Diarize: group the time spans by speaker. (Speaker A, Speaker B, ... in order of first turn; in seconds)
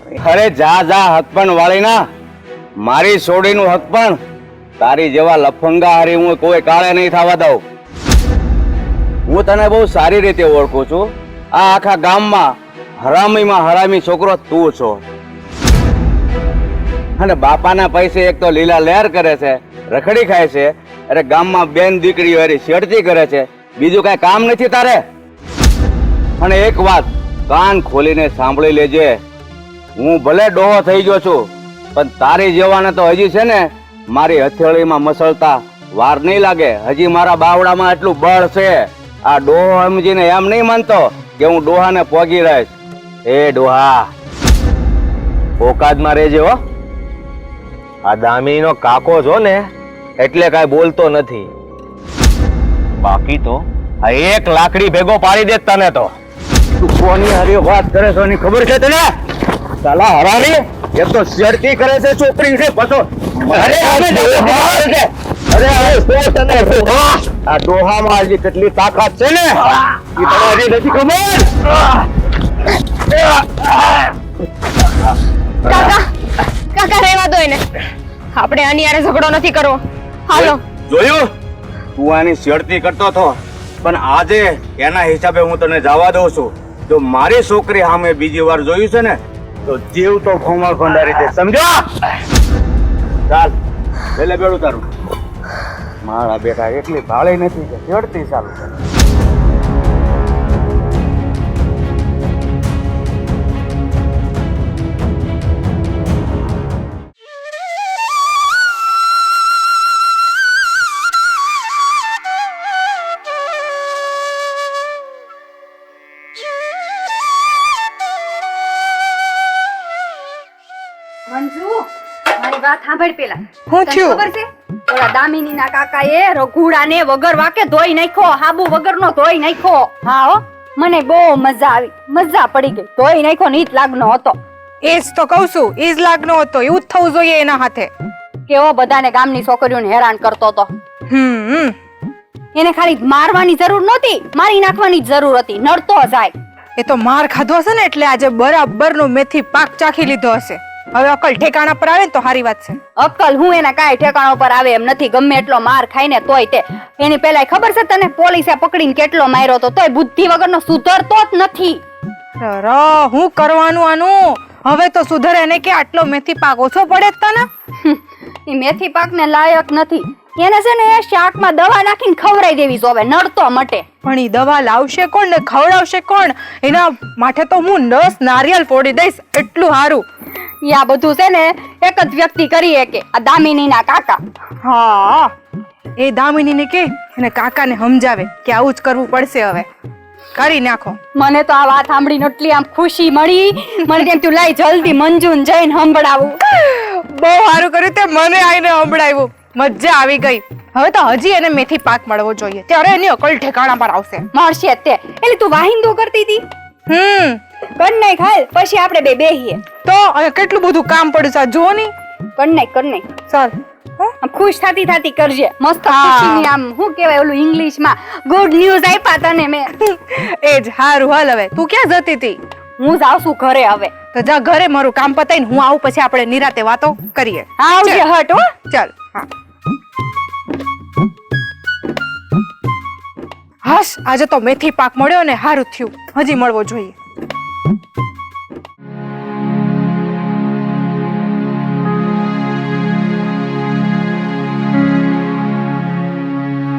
Speaker A: 0.1-2.0, 2.8-4.2, 4.8-7.6, 9.3-12.5, 13.0-15.0, 17.2-25.0, 26.4-29.1, 30.0-31.4, 31.9-38.8, 39.3-42.7, 56.8-59.0, 59.8-69.6, 70.2-71.7, 80.3-81.2, 82.0-91.8, 93.3-93.5, 94.2-94.8, 96.0-98.7
Speaker B: 43.3-44.1, 45.6-46.6, 48.1-51.5, 53.0-56.1, 63.5-64.9
Speaker C: 75.7-76.1, 76.7-77.6, 78.3-80.6
Speaker D: 121.3-134.4, 138.5-140.7, 142.6-146.3, 153.0-161.8, 167.8-173.8, 180.6-184.2, 191.2-196.4, 204.3-206.4, 207.8-209.6, 212.4-213.1, 214.2-219.7, 222.8-223.9, 227.6-228.4
Speaker E: 123.7-124.2, 134.8-137.9, 141.1-141.8, 146.8-152.8, 162.4-167.5, 174.0-180.1, 184.6-185.3, 186.0-189.7, 190.3-191.0, 196.5-204.3, 206.9-207.4, 209.8-211.9, 213.3-214.1, 215.9-216.5, 219.8-222.4, 224.1-228.0, 228.7-229.3, 233.6-236.9